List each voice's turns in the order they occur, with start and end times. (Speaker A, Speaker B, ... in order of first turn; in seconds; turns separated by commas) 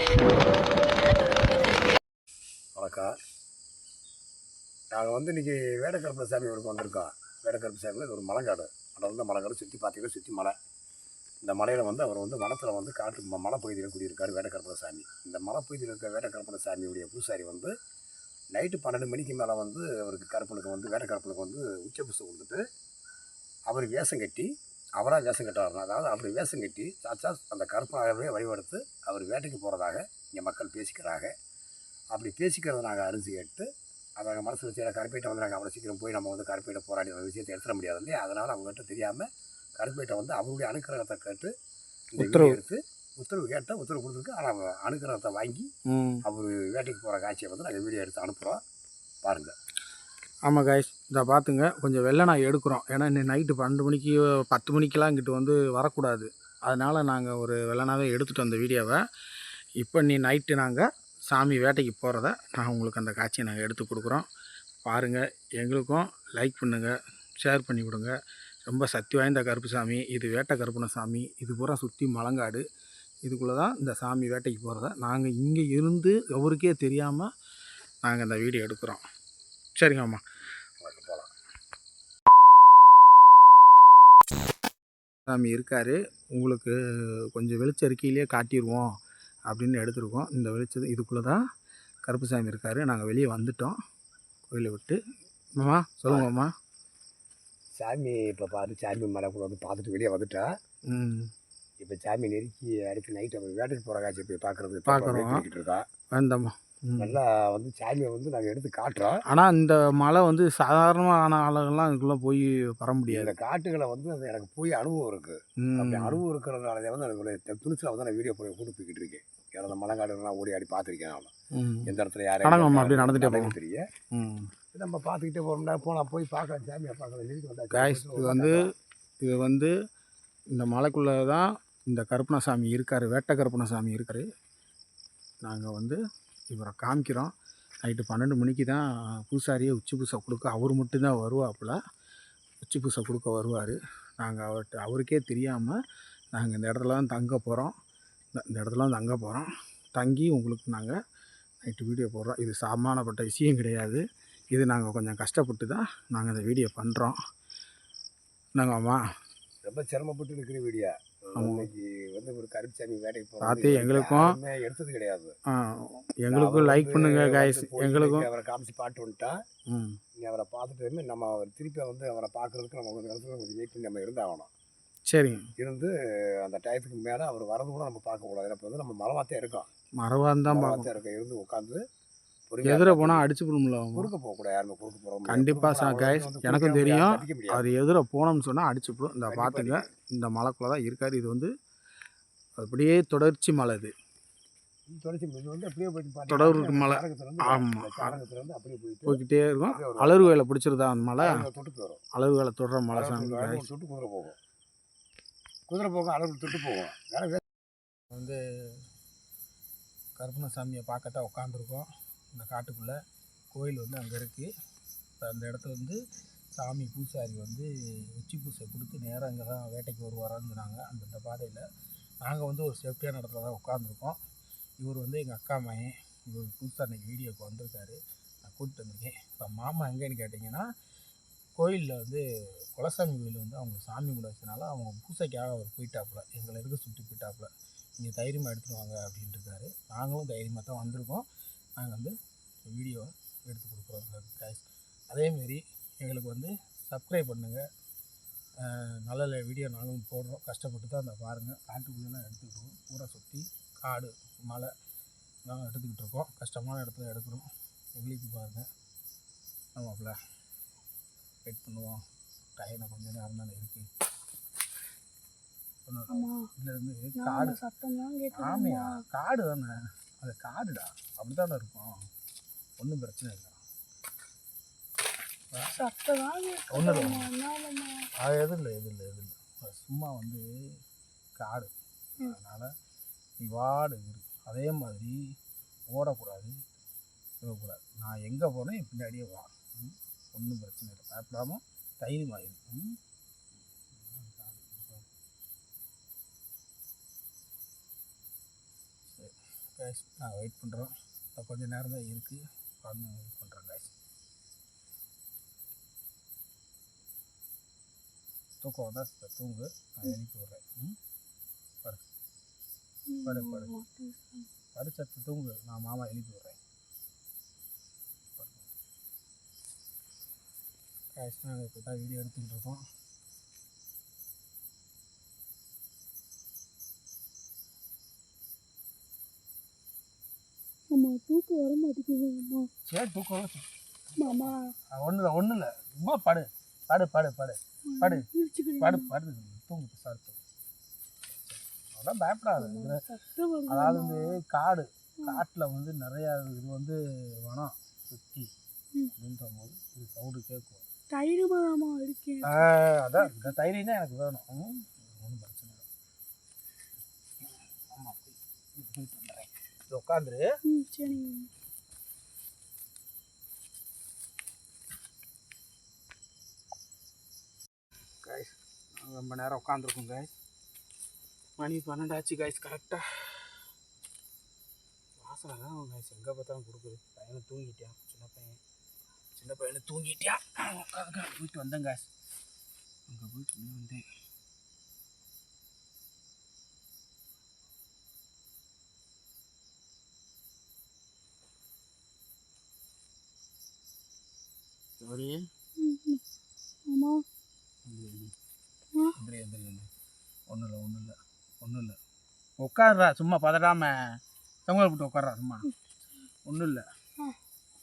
Speaker A: 2.8-3.1, Speaker A: 4.9-10.5, Speaker A: 11.4-17.7, Speaker A: 18.5-22.6, Speaker A: 23.7-31.3, Speaker A: 32.1-33.6, Speaker A: 34.2-39.2, Speaker A: 39.8-41.5, Speaker A: 42.1-45.7, Speaker B: 42.2-42.6, Speaker B: 45.9-46.2, Speaker A: 46.2-48.6, Speaker A: 49.2-49.5, Speaker B: 50.5-59.0, Speaker B: 59.8-64.3, Speaker B: 64.8-68.1, Speaker B: 68.6-72.6, Speaker B: 73.2-77.3, Speaker B: 78.0-79.0, Speaker B: 79.8-80.2, Speaker A: 80.8-81.3, Speaker B: 85.3-86.7, Speaker B: 87.3-88.9, Speaker B: 89.5-91.4, Speaker B: 92.0-93.8, Speaker B: 94.5-95.0, Speaker B: 95.6-96.5, Speaker A: 97.8-100.5, Speaker B: 100.9-101.3, Speaker A: 101.8-105.8, Speaker B: 104.9-105.4, Speaker B: 106.1-107.2, Speaker A: 107.0-109.2, Speaker B: 109.3-113.3, Speaker A: 113.1-121.3, Speaker B: 115.6-116.2, Speaker B: 121.5-121.9, Speaker A: 121.9-123.8, Speaker B: 122.4-123.5, Speaker B: 124.1-124.5, Speaker A: 124.7-128.7, Speaker B: 127.7-128.6, Speaker B: 129.2-129.7, Speaker B: 130.5-134.3, Speaker B: 135.4-136.0, Speaker B: 136.5-137.3, Speaker B: 137.8-141.8, Speaker B: 142.6-145.8, Speaker B: 146.3-147.7, Speaker B: 148.3-150.9, Speaker B: 151.6-157.2, Speaker B: 158.5-159.0, Speaker A: 159.7-165.3, Speaker B: 161.3-161.7, Speaker B: 163.4-164.3, Speaker B: 165.5-168.3, Speaker A: 166.3-169.4, Speaker B: 169.7-170.0, Speaker A: 170.2-174.5, Speaker B: 175.1-175.5, Speaker A: 175.6-179.7, Speaker B: 180.0-180.9, Speaker A: 180.5-181.8, Speaker A: 182.5-183.3, Speaker B: 182.6-184.1, Speaker A: 183.9-187.7, Speaker B: 185.3-191.5, Speaker A: 189.3-189.9, Speaker B: 192.6-193.9, Speaker A: 194.9-200.3, Speaker B: 196.3-198.2, Speaker B: 199.1-201.4, Speaker A: 201.2-202.0, Speaker B: 202.1-203.7, Speaker A: 202.9-204.3, Speaker A: 205.7-207.4, Speaker B: 208.1-208.8, Speaker B: 210.2-213.0, Speaker B: 213.5-214.5, Speaker B: 215.2-216.0, Speaker B: 216.5-221.6, Speaker B: 222.2-224.2, Speaker B: 224.8-230.6, Speaker B: 231.6-232.2, Speaker B: 232.8-241.3, Speaker B: 241.8-242.1, Speaker B: 242.7-247.6, Speaker B: 248.6-254.7, Speaker B: 255.4-258.7, Speaker B: 259.8-260.1, Speaker B: 261.4-262.0, Speaker B: 262.6-263.9, Speaker B: 265.9-267.6, Speaker C: 266.1-266.5, Speaker C: 267.1-269.0, Speaker B: 268.3-272.0, Speaker B: 272.8-273.6, Speaker C: 275.7-278.1, Speaker B: 276.7-277.3, Speaker B: 278.2-280.4, Speaker B: 281.4-281.7, Speaker B: 282.2-282.7, Speaker B: 283.4-285.1, Speaker B: 285.9-286.5, Speaker B: 287.4-292.9, Speaker B: 293.9-295.0, Speaker B: 299.1-303.9, Speaker B: 308.6-310.9, Speaker C: 313.1-314.5, Speaker B: 313.2-313.7, Speaker B: 314.7-316.6, Speaker B: 318.4-318.7, Speaker B: 321.1-322.8, Speaker C: 330.9-332.7, Speaker B: 332.9-338.2, Speaker C: 334.2-334.7, Speaker C: 337.9-339.1, Speaker B: 338.8-340.4, Speaker B: 341.3-343.0, Speaker C: 342.6-344.4, Speaker B: 343.7-348.5, Speaker B: 349.1-350.8, Speaker C: 351.1-353.5, Speaker B: 352.4-355.8, Speaker B: 357.4-360.4, Speaker C: 360.7-361.5, Speaker B: 368.2-370.3, Speaker B: 371.6-373.7, Speaker B: 375.2-378.6, Speaker B: 379.3-382.1, Speaker B: 383.1-384.1, Speaker B: 395.0-395.5, Speaker C: 395.8-396.2, Speaker C: 396.9-397.2, Speaker B: 397.9-398.3, Speaker B: 399.1-399.9, Speaker B: 400.5-402.0, Speaker B: 402.6-405.7, Speaker B: 406.4-406.9